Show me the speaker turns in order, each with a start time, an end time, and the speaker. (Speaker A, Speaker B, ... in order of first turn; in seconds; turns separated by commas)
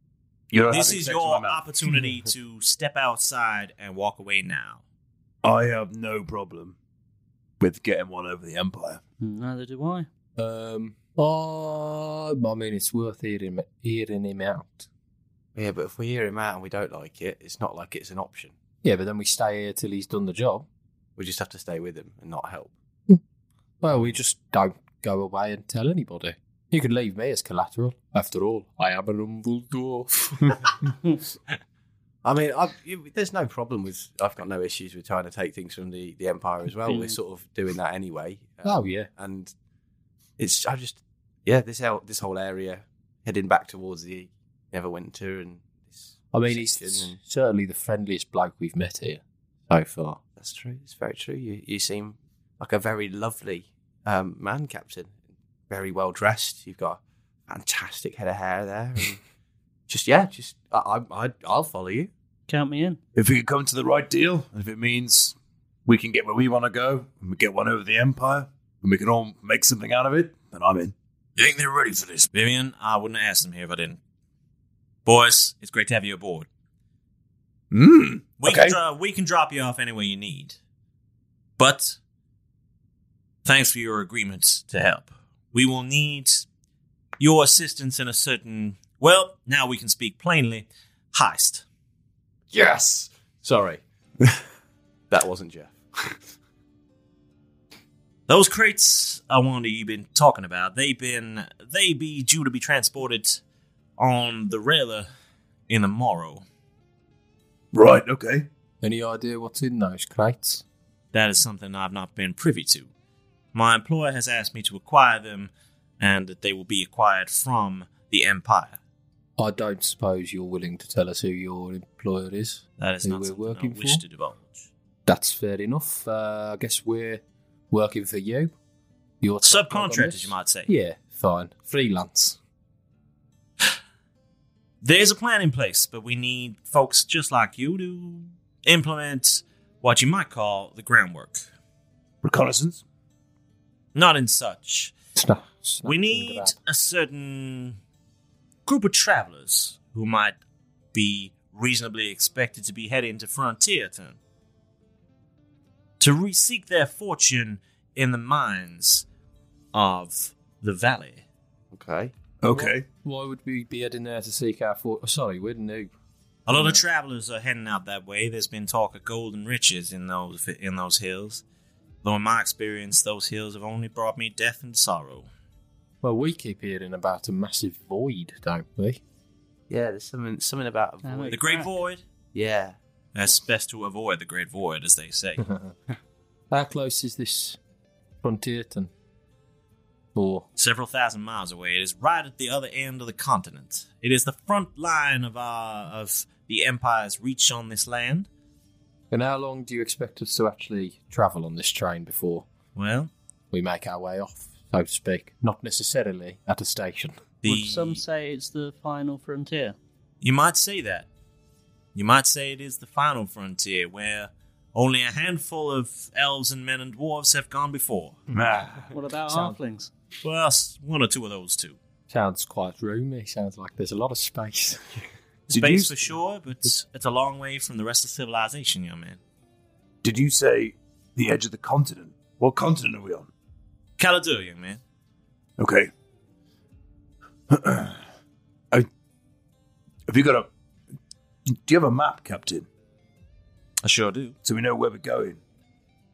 Speaker A: 0.5-1.7, Speaker B: 0.7-4.8, Speaker A: 5.4-6.8, Speaker A: 7.6-9.0, Speaker C: 9.2-10.1, Speaker D: 10.4-14.9, Speaker E: 15.6-18.5, Speaker D: 18.8-20.7, Speaker E: 21.2-22.7, Speaker D: 23.8-30.7, Speaker E: 32.2-39.5, Speaker C: 36.9-37.2, Speaker D: 38.6-39.1, Speaker E: 40.4-47.2, Speaker D: 46.3-50.2, Speaker E: 50.3-55.2, Speaker E: 55.7-59.2, Speaker E: 59.9-62.1, Speaker C: 62.5-63.0, Speaker A: 63.1-71.0, Speaker B: 71.4-74.0, Speaker B: 75.1-76.5, Speaker A: 77.7-78.8, Speaker B: 78.4-80.6, Speaker B: 81.6-82.0, Speaker B: 83.5-86.5, Speaker B: 87.2-91.7, Speaker E: 92.5-93.8, Speaker E: 95.1-96.2, Speaker B: 98.3-103.4, Speaker B: 104.0-105.1, Speaker B: 105.7-106.5, Speaker A: 107.7-108.5, Speaker D: 108.8-110.6, Speaker B: 111.1-112.9, Speaker B: 113.5-118.8, Speaker D: 119.4-124.0, Speaker B: 122.8-124.7, Speaker D: 125.1-128.5, Speaker D: 129.2-132.4, Speaker B: 129.4-130.7, Speaker B: 134.8-141.5, Speaker A: 142.2-142.8, Speaker B: 143.9-144.9, Speaker D: 145.2-146.6, Speaker B: 145.8-147.8, Speaker B: 148.7-150.4, Speaker B: 150.9-154.2, Speaker B: 156.0-159.1, Speaker B: 159.7-161.2, Speaker E: 161.7-162.1, Speaker A: 162.4-162.9, Speaker D: 162.5-165.9, Speaker B: 166.5-171.4, Speaker D: 166.5-166.8, Speaker B: 172.0-175.3, Speaker D: 176.0-179.0, Speaker E: 179.7-181.5, Speaker C: 181.0-181.7, Speaker B: 181.3-182.0, Speaker E: 182.3-182.8, Speaker B: 183.2-185.4, Speaker D: 185.4-185.7, Speaker D: 186.5-187.6, Speaker D: 188.2-188.9, Speaker D: 190.2-190.5, Speaker B: 190.6-198.3, Speaker D: 199.1-202.5, Speaker B: 202.8-203.1, Speaker D: 203.5-207.2, Speaker B: 207.4-208.0, Speaker C: 207.4-209.8, Speaker B: 210.2-211.1, Speaker B: 211.9-218.2, Speaker A: 218.3-218.9, Speaker C: 218.9-219.9, Speaker D: 219.3-219.6, Speaker B: 220.2-221.8, Speaker D: 222.1-225.1, Speaker A: 225.5-226.0, Speaker B: 225.5-229.2, Speaker A: 230.0-233.3, Speaker B: 234.0-234.8, Speaker A: 235.6-235.9, Speaker A: 237.5-238.0, Speaker A: 240.1-240.5, Speaker A: 241.6-242.7, Speaker B: 243.8-244.4, Speaker A: 244.4-245.4